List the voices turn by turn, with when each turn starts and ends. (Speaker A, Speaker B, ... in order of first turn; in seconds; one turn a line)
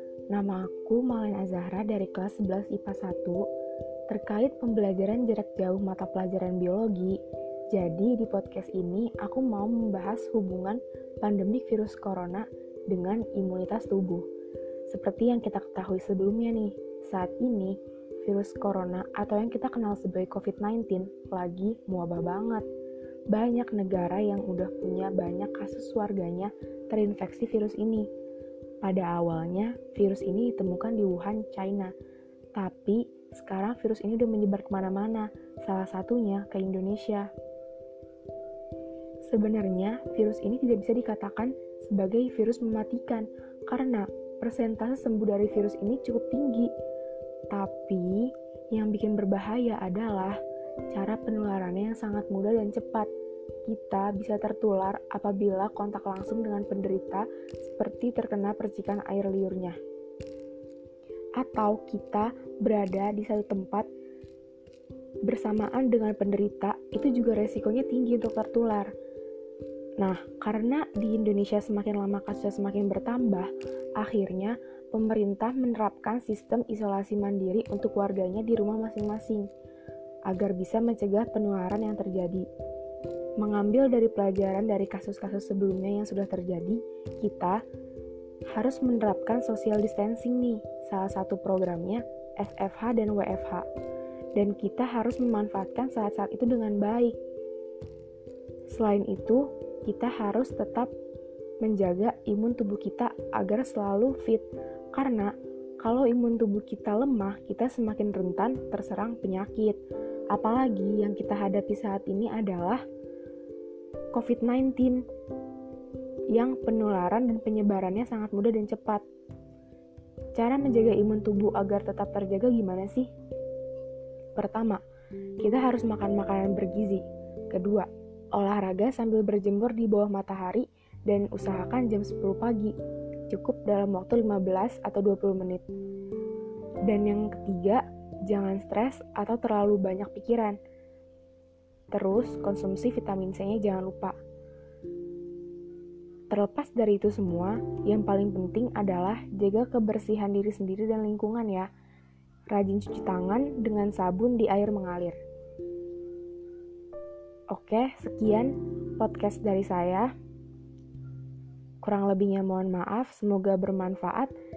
Speaker A: 0.3-3.4
Speaker A: 4.1-7.2
Speaker A: 7.7-14.2
Speaker A: 14.9-22.6
Speaker A: 23.3-28.1
Speaker A: 28.8-31.9
Speaker A: 32.5-37.3
Speaker A: 39.3-46.7
Speaker A: 47.5-50.4
Speaker A: 50.9-53.1
Speaker A: 53.7-59.8
Speaker A: 61.4-63.9
Speaker A: 65.3-68.9
Speaker A: 70.0-79.5
Speaker A: 80.3-82.5
Speaker A: 83.4-87.6
Speaker A: 88.5-93.7
Speaker A: 94.3-97.2
Speaker A: 98.7-100.9
Speaker A: 101.6-109.8
Speaker A: 110.3-112.8
Speaker A: 114.1-115.0
Speaker A: 116.3-119.0
Speaker A: 120.3-123.1
Speaker A: 124.4-124.8
Speaker A: 125.4-132.7
Speaker A: 133.3-135.7
Speaker A: 136.9-140.6
Speaker A: 141.9-144.2
Speaker A: 146.3-151.7
Speaker A: 152.5-155.2
Speaker A: 157.5-160.1
Speaker A: 161.8-164.3